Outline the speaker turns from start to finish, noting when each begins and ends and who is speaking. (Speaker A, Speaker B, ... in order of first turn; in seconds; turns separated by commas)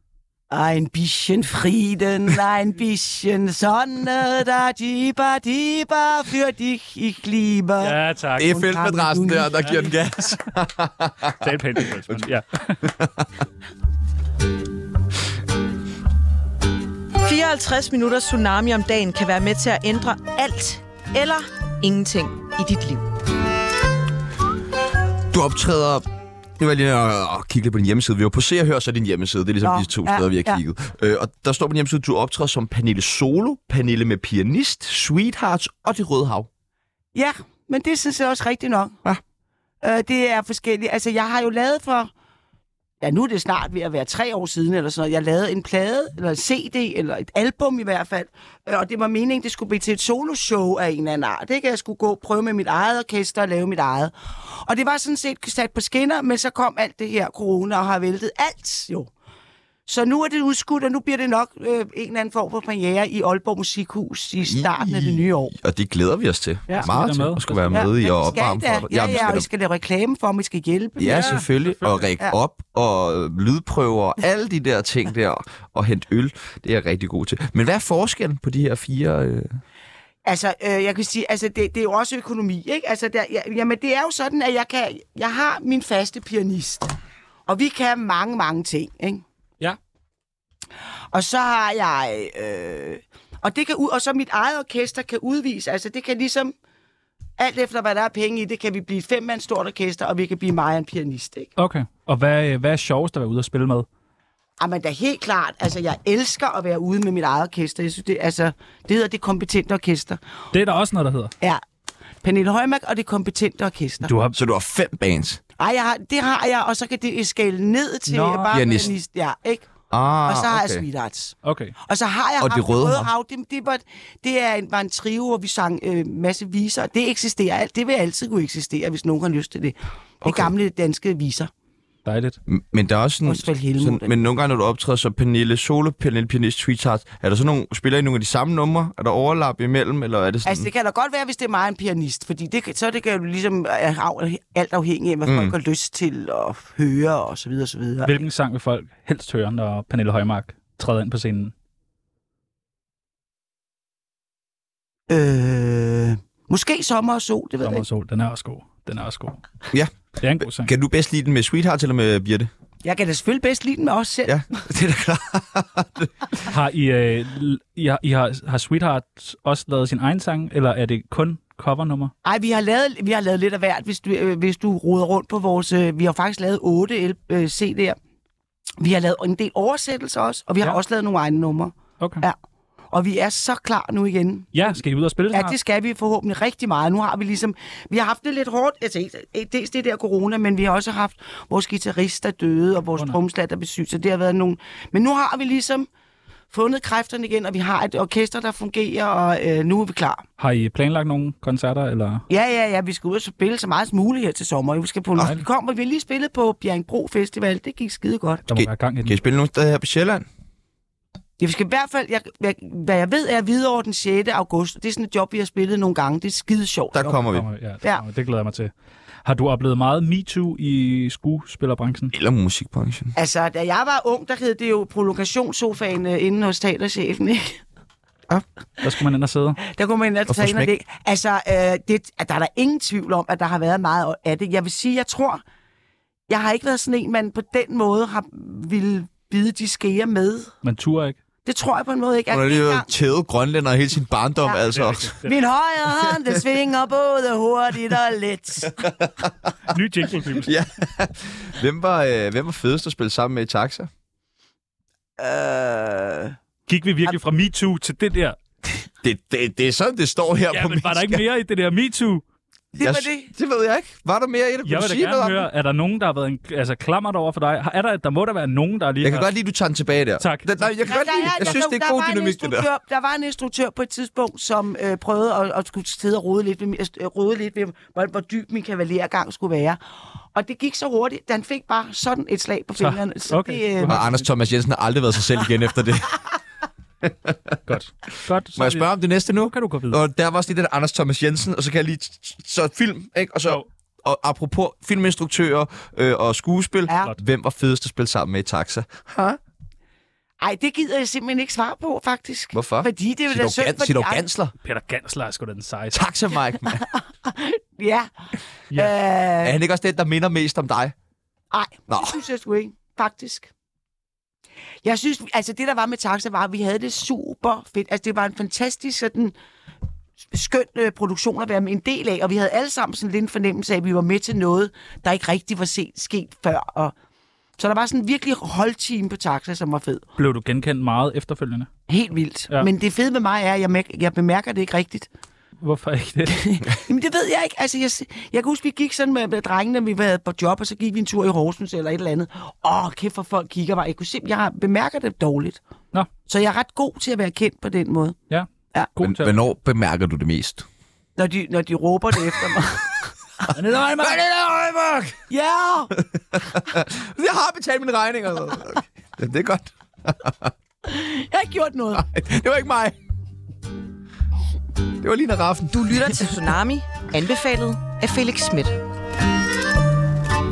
Speaker A: 0.5-9.9, Speaker B: 7.8-8.7, Speaker C: 8.4-12.2, Speaker B: 9.6-10.3, Speaker B: 11.4-12.9, Speaker C: 12.8-13.3, Speaker D: 17.2-23.1, Speaker C: 25.3-26.1, Speaker C: 26.6-36.5, Speaker A: 29.6-30.6, Speaker A: 37.1-39.0, Speaker A: 39.8-42.1, Speaker A: 43.0-59.1, Speaker A: 59.9-65.5, Speaker C: 64.5-69.5, Speaker B: 66.8-67.9, Speaker A: 67.7-71.4, Speaker C: 71.0-79.6, Speaker B: 71.0-72.1, Speaker A: 80.2-86.9, Speaker A: 87.5-89.2, Speaker A: 91.1-96.5, Speaker A: 97.4-101.5, Speaker B: 101.6-103.9, Speaker A: 104.6-110.2, Speaker B: 110.5-111.3, Speaker A: 112.2-114.1, Speaker B: 114.0-114.4, Speaker C: 114.3-115.4, Speaker A: 115.6-119.7, Speaker B: 118.1-118.6, Speaker C: 118.5-118.9, Speaker C: 119.9-120.8, Speaker A: 120.2-131.5, Speaker B: 121.4-121.7, Speaker C: 122.4-123.1, Speaker C: 130.2-130.5, Speaker B: 132.0-132.4, Speaker C: 132.5-140.7, Speaker A: 133.2-134.2, Speaker A: 140.4-148.2, Speaker C: 145.2-145.5, Speaker B: 148.0-151.5, Speaker A: 155.1-157.8, Speaker B: 157.6-159.4, Speaker C: 159.7-162.5, Speaker B: 160.2-160.7, Speaker A: 162.8-164.7, Speaker C: 164.2-166.1, Speaker B: 166.4-172.1, Speaker A: 172.2-178.0, Speaker A: 178.8-182.3, Speaker B: 182.0-182.2, Speaker A: 182.9-184.8, Speaker B: 184.5-185.6, Speaker A: 185.3-195.9, Speaker A: 196.5-200.2, Speaker B: 200.4-202.2, Speaker A: 202.3-208.4, Speaker B: 205.2-205.4, Speaker B: 208.5-209.2, Speaker C: 208.5-210.2, Speaker A: 211.4-217.2, Speaker C: 216.9-217.4, Speaker B: 217.2-218.7, Speaker B: 219.2-222.1, Speaker C: 222.1-223.1, Speaker A: 223.1-227.6, Speaker B: 228.8-229.6, Speaker A: 229.6-235.4, Speaker C: 230.3-230.7, Speaker A: 236.3-240.5, Speaker B: 240.6-241.2, Speaker A: 241.4-242.9, Speaker C: 242.3-245.2, Speaker B: 244.7-245.3, Speaker A: 245.2-248.9, Speaker C: 246.0-246.4, Speaker C: 248.8-249.5, Speaker B: 249.7-250.5, Speaker C: 250.3-253.9, Speaker A: 255.2-256.3, Speaker B: 256.7-258.4, Speaker C: 259.0-261.2, Speaker B: 260.5-262.2, Speaker C: 262.7-265.5, Speaker A: 262.8-263.3, Speaker B: 264.6-269.3, Speaker C: 269.0-272.7, Speaker B: 270.2-270.7, Speaker A: 270.8-279.8, Speaker A: 280.3-284.0, Speaker B: 282.8-284.2, Speaker C: 283.9-286.2, Speaker C: 287.0-287.6, Speaker B: 287.6-290.0, Speaker C: 288.5-299.4, Speaker A: 300.4-304.2, Speaker C: 302.5-304.5, Speaker B: 304.6-306.0, Speaker C: 305.9-306.9, Speaker A: 306.8-308.1, Speaker A: 308.7-309.6, Speaker C: 309.4-310.9, Speaker A: 311.5-313.5, Speaker C: 311.9-312.2, Speaker A: 314.8-319.3, Speaker A: 320.3-326.9, Speaker A: 327.6-330.0, Speaker B: 330.2-331.7, Speaker A: 331.9-335.1, Speaker B: 335.6-336.4, Speaker A: 336.3-345.6, Speaker A: 346.2-348.2, Speaker B: 348.3-349.4, Speaker C: 349.0-350.6, Speaker A: 351.2-353.1, Speaker B: 353.5-354.2, Speaker C: 353.7-355.2, Speaker A: 355.3-355.9, Speaker C: 356.0-360.5, Speaker A: 360.8-362.1, Speaker C: 361.9-363.0, Speaker C: 365.0-366.2, Speaker D: 365.7-368.8